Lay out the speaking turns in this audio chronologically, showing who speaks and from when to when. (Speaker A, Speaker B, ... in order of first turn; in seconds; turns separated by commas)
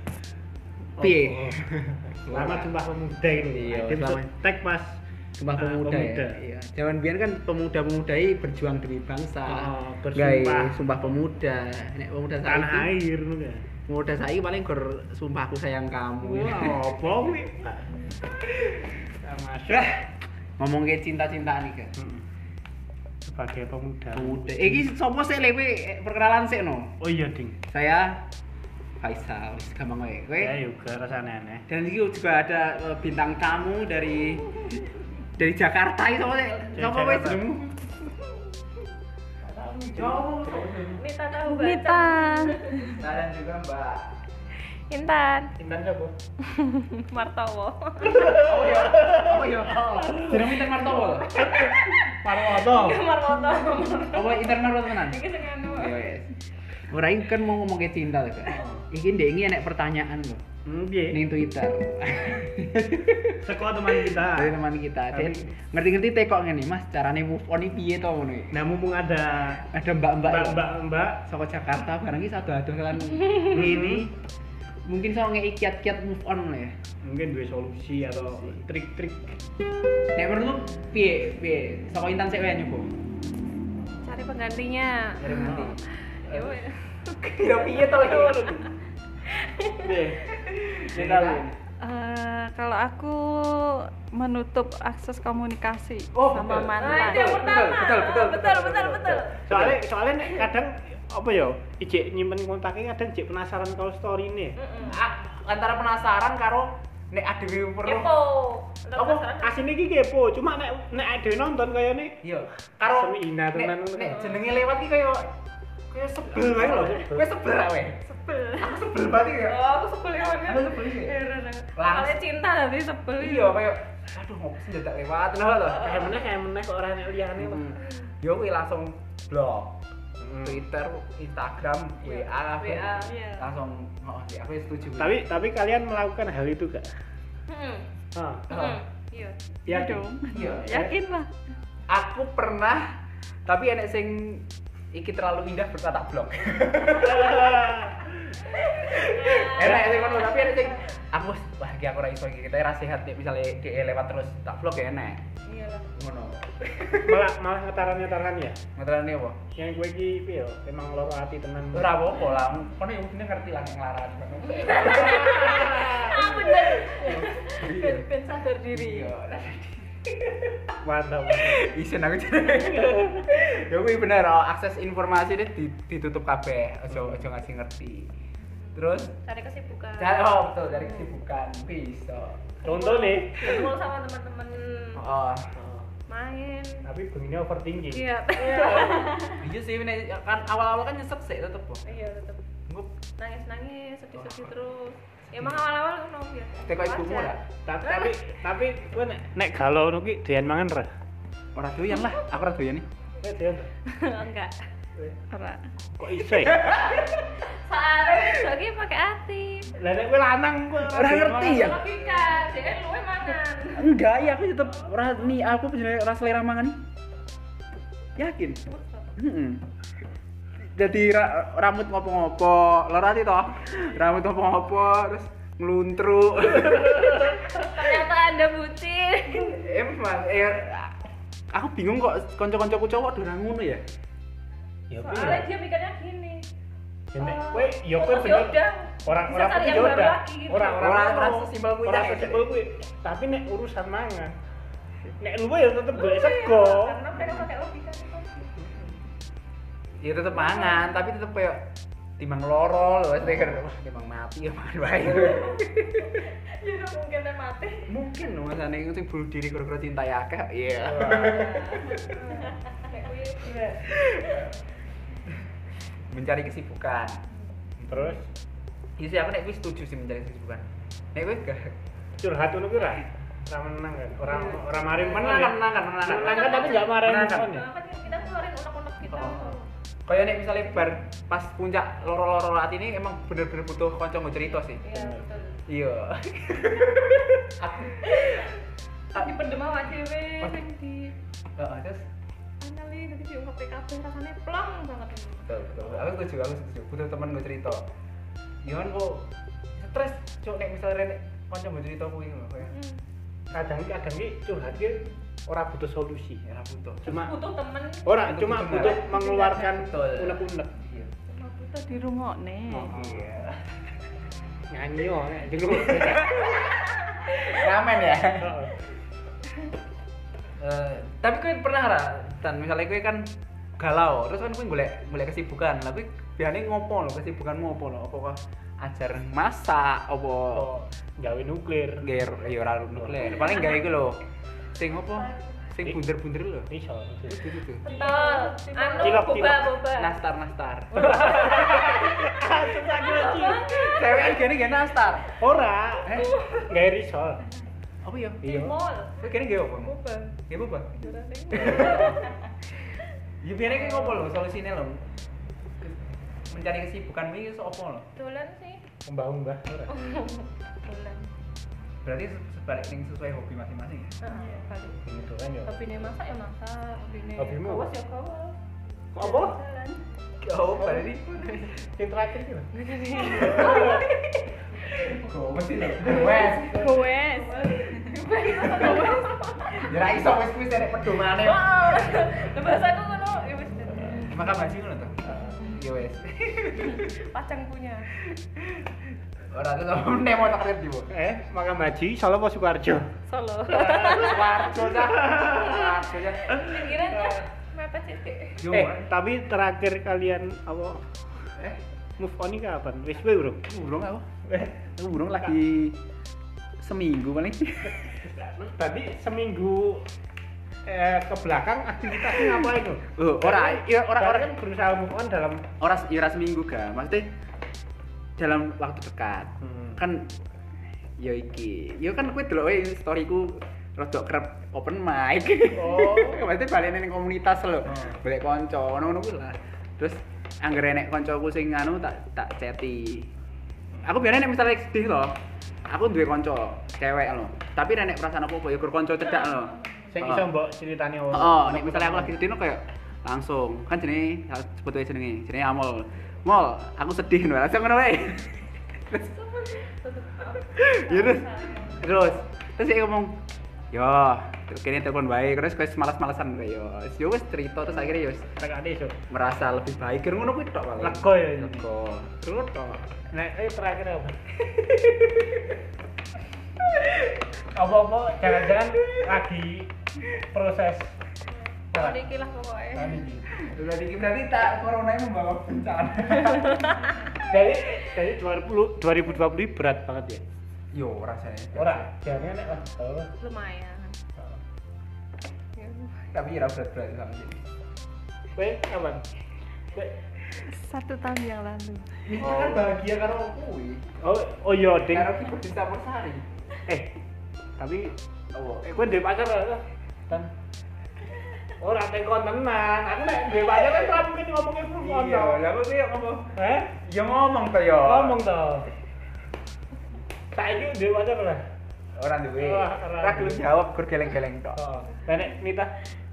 Speaker A: 1.0-5.0, Speaker B: 1.0-1.6, Speaker B: 2.2-2.7, Speaker B: 3.4-4.3, Speaker B: 5.4-12.9, Speaker A: 5.6-6.4, Speaker A: 9.4-11.0, Speaker A: 12.4-13.7, Speaker B: 13.9-16.9, Speaker A: 16.2-17.9, Speaker A: 19.2-19.9, Speaker B: 19.7-20.1, Speaker B: 20.6-21.9, Speaker A: 22.0-22.2, Speaker A: 23.2-24.8, Speaker B: 24.1-27.0, Speaker A: 27.0-27.6, Speaker B: 27.7-28.2, Speaker B: 29.0-30.6, Speaker A: 30.4-31.7, Speaker B: 31.7-34.9, Speaker B: 35.4-38.0, Speaker A: 36.7-37.5, Speaker A: 39.4-40.9, Speaker B: 40.0-41.0, Speaker C: 41.0-42.9, Speaker D: 41.4-43.0, Speaker B: 43.0-44.1, Speaker C: 44.9-45.5, Speaker A: 45.6-46.1, Speaker C: 46.5-48.4, Speaker B: 48.2-51.5, Speaker A: 49.0-50.2, Speaker C: 50.1-56.0, Speaker A: 51.4-53.0, Speaker B: 54.1-56.3, Speaker B: 56.9-60.4, Speaker A: 58.5-58.8, Speaker A: 60.7-61.2, Speaker B: 61.1-63.4, Speaker A: 63.4-64.6, Speaker B: 63.9-68.5, Speaker A: 65.1-65.5, Speaker A: 68.5-69.7, Speaker B: 69.7-70.7, Speaker A: 70.2-71.3, Speaker B: 71.3-74.1, Speaker A: 73.5-74.1, Speaker B: 74.9-76.8, Speaker A: 77.0-79.4, Speaker B: 78.2-78.6, Speaker B: 80.1-82.9, Speaker C: 84.0-85.7, Speaker B: 85.2-86.6, Speaker A: 85.3-85.7, Speaker C: 86.3-88.7, Speaker B: 87.2-88.7, Speaker C: 89.4-89.8, Speaker A: 89.8-90.3, Speaker B: 90.3-91.5, Speaker A: 90.9-91.6, Speaker D: 91.8-97.6, Speaker B: 96.1-99.8, Speaker C: 96.8-99.3, Speaker D: 98.3-99.3, Speaker A: 99.4-104.6, Speaker C: 104.6-105.0, Speaker B: 104.8-108.1, Speaker C: 107.8-109.6, Speaker B: 109.0-109.3, Speaker A: 109.4-112.2, Speaker B: 112.2-115.3, Speaker A: 112.9-114.3, Speaker B: 115.9-118.0, Speaker A: 116.3-117.3, Speaker C: 118.1-118.8, Speaker B: 118.6-119.6, Speaker C: 119.5-123.6, Speaker B: 120.2-121.2, Speaker B: 121.8-122.2, Speaker B: 123.2-126.0, Speaker A: 125.8-127.7, Speaker B: 127.4-129.8, Speaker A: 130.2-130.6, Speaker B: 130.4-135.2, Speaker C: 132.0-133.5, Speaker A: 135.0-136.9, Speaker C: 137.5-137.9, Speaker A: 138.1-138.5, Speaker C: 138.5-139.4, Speaker B: 138.5-138.8, Speaker D: 139.7-141.3, Speaker A: 139.7-140.9, Speaker B: 140.3-140.8, Speaker B: 141.9-142.9, Speaker B: 143.5-147.8, Speaker A: 146.9-148.3, Speaker B: 148.8-155.2, Speaker C: 148.9-150.8, Speaker A: 149.4-150.1, Speaker C: 155.5-155.9, Speaker B: 155.9-157.3, Speaker A: 157.0-158.6, Speaker B: 158.8-159.4, Speaker A: 159.6-162.0, Speaker B: 161.7-168.1, Speaker C: 164.6-167.9, Speaker A: 165.4-165.9, Speaker D: 166.0-169.1, Speaker B: 168.7-170.7, Speaker A: 170.8-171.7, Speaker B: 171.3-178.1, Speaker A: 172.6-173.1, Speaker A: 176.9-177.3, Speaker C: 178.7-181.1, Speaker B: 178.8-179.2, Speaker B: 180.0-182.5, Speaker A: 182.6-183.7, Speaker C: 182.7-185.0, Speaker B: 185.0-185.5, Speaker A: 185.6-185.9, Speaker C: 186.1-186.8, Speaker A: 186.8-188.5, Speaker C: 187.9-189.4, Speaker B: 188.5-191.8, Speaker C: 191.8-192.4, Speaker B: 192.7-192.9, Speaker C: 193.2-198.1, Speaker B: 194.2-194.5, Speaker B: 196.6-197.4, Speaker A: 197.6-200.9, Speaker B: 201.6-202.9, Speaker A: 203.2-203.7, Speaker C: 203.9-204.6, Speaker D: 205.3-205.7, Speaker A: 206.0-206.7, Speaker B: 206.4-207.1, Speaker C: 206.8-209.7, Speaker A: 209.8-211.8, Speaker B: 210.8-211.9, Speaker C: 211.5-213.9, Speaker B: 213.8-216.8, Speaker B: 218.2-218.6, Speaker C: 218.7-219.1, Speaker B: 219.2-219.7, Speaker B: 220.6-227.8, Speaker C: 227.3-229.6, Speaker B: 229.4-231.0, Speaker B: 231.5-233.8, Speaker A: 234.9-235.5, Speaker C: 235.0-236.5, Speaker A: 237.1-244.3, Speaker C: 237.2-240.9, Speaker B: 240.8-242.5, Speaker A: 245.2-247.0, Speaker C: 245.9-248.5, Speaker B: 247.2-247.5, Speaker B: 250.0-251.7, Speaker C: 250.3-250.9, Speaker B: 252.2-256.1, Speaker C: 255.2-255.6, Speaker C: 256.6-257.9, Speaker B: 257.9-262.1, Speaker A: 260.8-261.5, Speaker C: 261.1-263.9, Speaker B: 263.7-264.5, Speaker B: 266.1-267.2, Speaker A: 267.8-268.3, Speaker B: 269.0-271.7, Speaker A: 272.2-277.7, Speaker C: 274.3-274.8, Speaker B: 274.3-277.5, Speaker C: 276.2-279.6, Speaker B: 279.1-284.9, Speaker C: 284.8-285.6, Speaker A: 284.9-285.3, Speaker B: 285.7-288.5, Speaker B: 289.1-289.4, Speaker C: 289.1-291.1, Speaker B: 291.6-292.1, Speaker C: 292.6-295.5, Speaker B: 295.5-297.8, Speaker B: 298.6-302.8, Speaker C: 302.7-303.0, Speaker A: 303.5-306.4, Speaker B: 306.5-307.3, Speaker A: 307.0-307.4, Speaker C: 307.1-308.1, Speaker A: 308.1-310.8, Speaker B: 308.2-309.1, Speaker C: 308.7-309.8, Speaker B: 309.7-311.1, Speaker C: 311.3-312.0, Speaker D: 311.9-312.9, Speaker A: 312.7-313.4, Speaker B: 312.9-313.6, Speaker A: 314.7-316.5, Speaker B: 315.7-318.6, Speaker A: 318.4-318.8, Speaker B: 320.6-330.7, Speaker A: 330.6-332.1, Speaker B: 332.0-334.2, Speaker A: 333.0-333.4, Speaker B: 334.8-336.7, Speaker A: 336.7-337.4, Speaker B: 337.3-337.9, Speaker D: 337.9-339.2, Speaker C: 337.9-340.2, Speaker A: 339.0-339.8, Speaker B: 339.9-341.6, Speaker A: 340.9-343.7, Speaker C: 341.4-342.2, Speaker C: 342.9-344.6, Speaker B: 343.6-345.3, Speaker A: 345.4-347.4, Speaker B: 346.0-346.4, Speaker C: 346.2-346.6, Speaker B: 348.0-350.0, Speaker C: 348.4-349.1, Speaker C: 349.8-350.4, Speaker B: 350.5-352.3, Speaker C: 351.0-352.3, Speaker B: 353.4-355.0, Speaker C: 353.7-354.3, Speaker B: 355.8-358.1, Speaker C: 358.2-358.8, Speaker A: 359.1-359.9, Speaker C: 359.9-361.3, Speaker B: 362.0-364.2, Speaker C: 364.2-365.0, Speaker A: 365.0-365.8, Speaker C: 365.7-368.6, Speaker A: 367.4-367.9, Speaker A: 369.1-369.6, Speaker C: 369.2-370.0, Speaker B: 370.4-371.7, Speaker A: 370.8-371.1, Speaker A: 371.8-372.7, Speaker C: 372.7-374.1, Speaker B: 373.3-374.1, Speaker B: 374.9-376.8, Speaker D: 376.1-377.9, Speaker C: 376.1-380.0, Speaker B: 378.5-379.1, Speaker B: 379.7-381.9, Speaker C: 381.4-384.4, Speaker B: 384.3-387.2, Speaker C: 386.8-388.1, Speaker B: 389.5-391.1, Speaker A: 391.1-393.1, Speaker C: 393.3-394.7, Speaker B: 393.7-396.9, Speaker A: 395.2-395.5, Speaker C: 396.5-398.7, Speaker A: 397.1-397.4, Speaker B: 398.6-399.1, Speaker A: 398.6-401.0, Speaker A: 402.2-403.6, Speaker B: 403.6-404.3, Speaker A: 404.5-404.9, Speaker B: 405.0-406.0, Speaker B: 406.8-408.2, Speaker A: 408.2-410.1, Speaker A: 410.9-415.6, Speaker B: 413.1-414.5, Speaker B: 415.8-417.3, Speaker B: 418.4-420.3, Speaker B: 421.2-433.3, Speaker A: 425.8-426.4, Speaker B: 434.0-435.4, Speaker B: 435.9-440.5, Speaker A: 440.1-442.4, Speaker B: 441.3-449.3, Speaker C: 449.1-452.1, Speaker B: 450.7-453.4, Speaker B: 453.9-458.5, Speaker A: 458.6-459.2, Speaker B: 459.3-462.5, Speaker A: 461.0-461.9, Speaker A: 462.4-464.4, Speaker B: 464.7-465.6, Speaker A: 467.7-471.1, Speaker C: 471.9-473.2, Speaker A: 471.9-472.2, Speaker A: 472.9-473.5, Speaker B: 473.5-477.1, Speaker A: 477.5-480.4, Speaker B: 480.9-482.1, Speaker A: 481.8-483.3, Speaker C: 483.4-484.2, Speaker C: 485.8-486.2, Speaker B: 486.3-487.6, Speaker A: 488.6-489.3, Speaker D: 490.6-492.2, Speaker B: 492.2-494.0, Speaker A: 494.2-495.3, Speaker B: 495.1-496.4, Speaker A: 496.9-497.1, Speaker A: 497.8-498.1, Speaker B: 498.5-499.0, Speaker A: 498.8-500.5, Speaker A: 501.8-505.7, Speaker B: 505.0-508.4, Speaker A: 506.6-507.0, Speaker A: 508.0-508.9, Speaker A: 510.5-511.6, Speaker B: 512.1-514.8, Speaker A: 512.6-513.7, Speaker A: 514.8-515.9